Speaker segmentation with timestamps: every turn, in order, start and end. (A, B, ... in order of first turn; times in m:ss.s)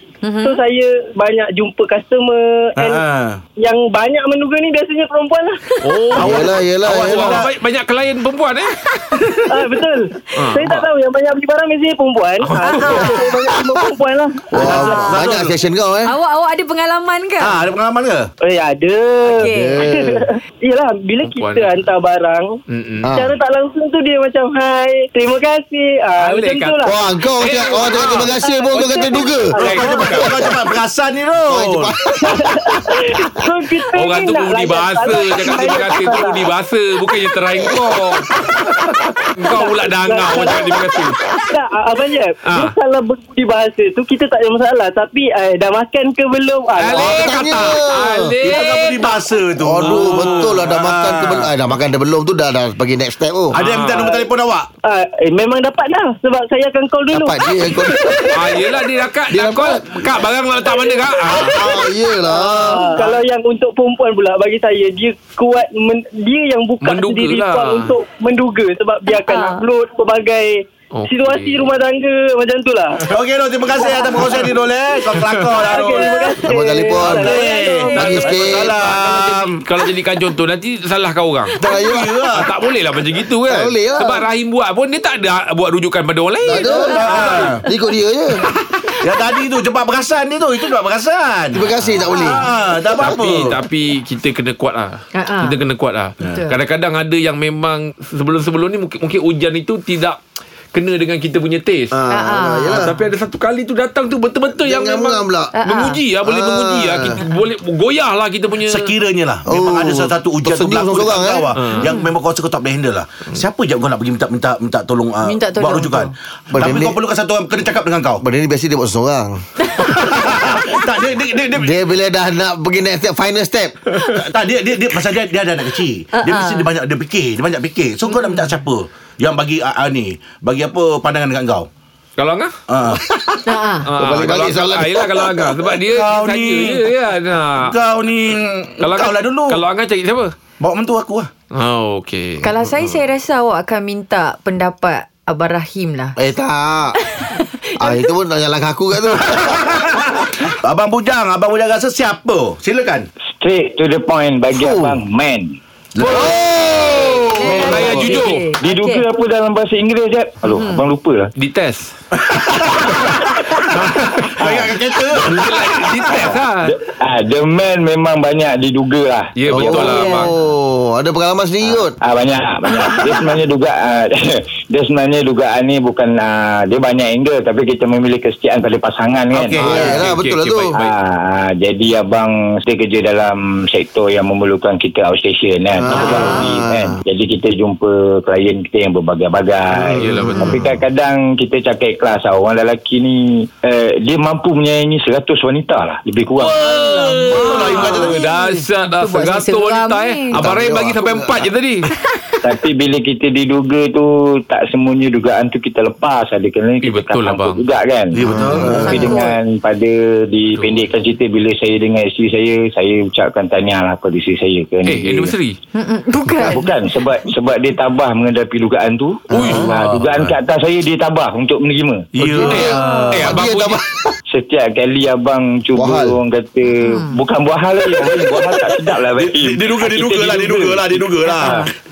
0:00.2-0:00.6 A
0:00.4-0:03.0 B
0:02.8-0:03.4 C
0:03.6-0:05.6 B
0:05.8-0:09.4 D
0:06.2-0:07.4 E
0:06.2-0:07.5 C
0:09.5-0:14.9 B
0:10.3-0:10.9 D
0:12.4-0:13.3 D
0:12.7-0:13.2 A
0:14.5-0:16.1 E
0:14.6-0:15.0 A
0:14.6-0:15.5 C
0:16.0-0:17.6 A
0:17.4-0:18.3 C
0:18.4-0:22.4 B
0:19.2-0:19.9 A
0:19.3-0:20.2 E
0:21.2-0:21.8 D
0:22.7-0:23.1 D
0:23.0-0:23.3 E
0:23.1-0:26.9 B
0:26.2-0:28.4 D
0:26.8-0:29.6 E
0:27.8-0:30.5 B
0:29.6-0:30.4 D
0:29.6-0:31.9 C
0:30.1-0:30.6 E
0:31.4-0:33.0 E
0:32.2-0:36.5 B
0:33.9-0:41.4 D
0:39.4-0:47.1 B
0:42.4-0:42.7 D
0:46.8-0:49.1 D
0:46.9-0:48.3 E
0:48.4-0:51.5 C
0:49.6-0:53.5 E
0:49.8-0:50.6 D
0:53.5-0:54.7 C
0:53.5-0:54.1 D
0:53.8-0:54.2 B
0:54.9-0:58.8 B
0:57.1-0:58.3 E
0:58.3-1:01.6 D
0:59.3-0:59.8 E
1:00.7-1:01.0 B
1:01.3-1:02.9 E
1:02.3-1:13.0 B
1:02.3-1:03.0 A
1:06.8-1:07.9 D
1:09.0-1:09.6 A
1:10.9-1:11.7 D
1:13.1-1:16.1 C
1:13.8-1:14.5 A
1:13.9-1:14.5 B
1:15.1-1:15.5 D
1:15.6-1:18.1 B
1:15.6-1:18.2 A
1:16.4-1:18.8 E
1:17.0-1:19.6 C
1:18.2-1:21.5 D
1:21.6-1:22.2 E
1:21.6-1:22.5 C
1:21.7-1:22.0 A
1:22.3-1:27.2 D
1:23.5-1:24.2 E
1:26.4-1:28.4 E
1:26.6-1:27.6 A
1:26.9-1:27.6 C
1:29.0-1:33.6 C
1:31.5-1:32.5 E
1:33.0-1:40.2 D
1:35.1-1:35.6 A
1:36.3-1:36.5 A
1:40.7-1:42.0 D
1:41.9-1:42.9 E
1:42.1-1:42.9 A
1:42.7-1:48.9 D
1:44.5-1:45.5 E
1:45.5-1:46.0 A
1:46.2-1:47.1 E
1:48.6-1:58.2 C
1:49.4-1:51.6 E
1:51.5-1:51.9 D
1:51.8-1:52.1 A
1:55.2-1:56.1 A
1:56.5-1:57.0 E
1:58.2-1:59.4 E
1:59.9-2:01.7 C
2:00.2-2:00.6 E
2:01.5-2:03.8 E
2:04.0-2:11.7 C
2:06.1-2:06.7 A
2:08.1-2:08.5 A
2:12.2-2:12.5 D
2:12.7-2:13.5 C
2:13.4-2:13.9 A
2:13.8-2:17.7 D
2:14.0-2:15.1 E
2:15.7-2:16.8 C
2:17.5-2:19.6 C
2:18.8-2:20.3 D
2:20.6-2:21.3 C
2:21.5-2:22.5 D
2:22.4-2:26.2 A
2:22.6-2:23.0 E
2:26.2-2:27.0 E
2:27.1-2:28.1 A
2:27.8-2:29.8 E
2:29.3-2:33.1 C
2:33.4-2:35.6 F
2:34.5-2:35.0 E
2:35.9-2:38.2 C
2:36.0-2:36.3 A
2:37.3-2:39.0 A
2:37.5-2:38.4 D
2:38.6-2:41.3 F
2:40.4-2:40.8 A
2:41.4-2:41.9 D
2:42.1-2:43.0 C
2:43.7-2:44.3 D
2:44.3-2:46.3 C
2:45.1-2:46.7 D
2:46.6-2:49.3 F
2:49.4-2:50.3 D
2:49.5-2:52.0 E
2:49.6-2:50.3 A
2:52.0-2:59.8 F
2:59.3-2:59.9 C
2:59.6-3:00.8 E
2:59.7-3:00.9 D
3:00.8-3:16.6 F
3:05.8-3:07.0 E
3:06.0-3:06.2 D
3:06.0-3:06.3 A
3:09.8-3:10.7 E
3:09.9-3:10.7 D
3:16.4-3:18.2 C
3:16.6-3:20.4 A
3:17.1-3:21.9 D
3:20.3-3:21.5 E
3:22.4-3:28.2 F
3:26.8-3:27.6 D
3:28.1-3:29.1 C
3:28.3-3:29.0 E
3:28.3-3:29.3 A
3:28.7-3:35.3 F
3:30.6-3:30.9 D
3:34.8-3:35.6 D
3:35.7-3:36.6 A
3:36.4-3:42.1 F
3:39.3-3:40.0 E
3:39.3-3:40.3 D
3:42.1-3:43.3 C
3:42.2-3:44.1 E
3:42.5-3:43.8 D
3:42.6-3:43.1 A
3:44.3-3:50.8 F
3:45.8-3:46.2 E
3:46.8-3:47.2 A
3:49.2-3:51.7 C
3:51.2-3:51.7 A